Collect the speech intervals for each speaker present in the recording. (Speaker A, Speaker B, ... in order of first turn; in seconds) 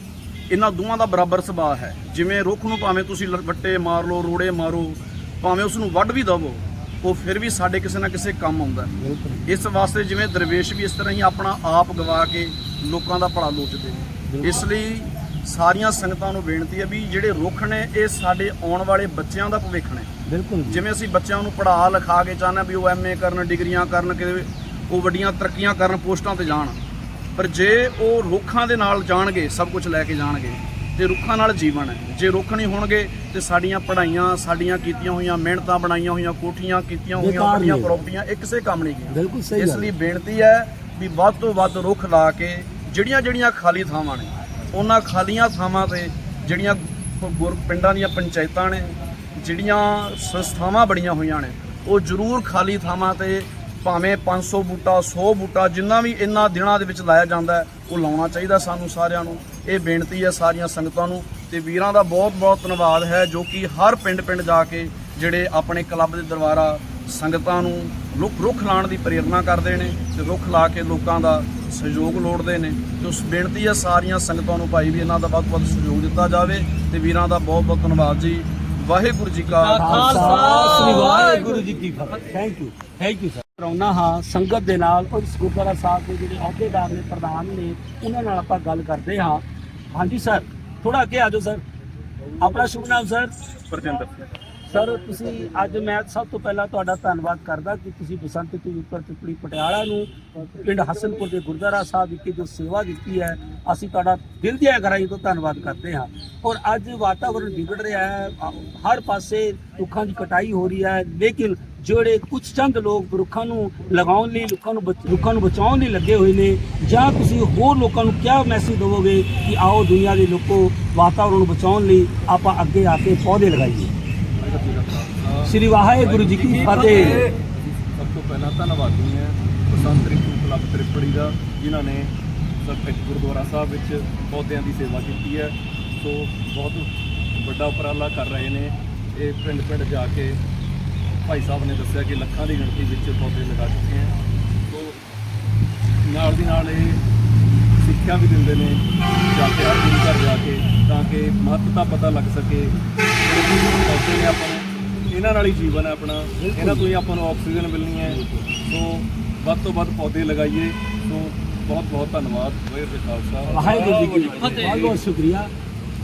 Speaker A: 0.5-8.9, 9.4-20.1, 20.7-26.8, 27.4-80.4
Speaker B: 9.0-9.4, 14.3-14.6, 20.3-20.8, 37.2-38.0, 39.1-39.9, 79.7-91.6, 92.4-93.3, 94.7-123.9, 125.4-127.3, 156.4-156.9, 158.0-158.5, 163.5-165.5
Speaker C: 80.5-81.0, 93.7-94.2, 124.4-140.4, 141.2-144.1, 144.7-145.0, 146.1-147.0, 147.8-165.0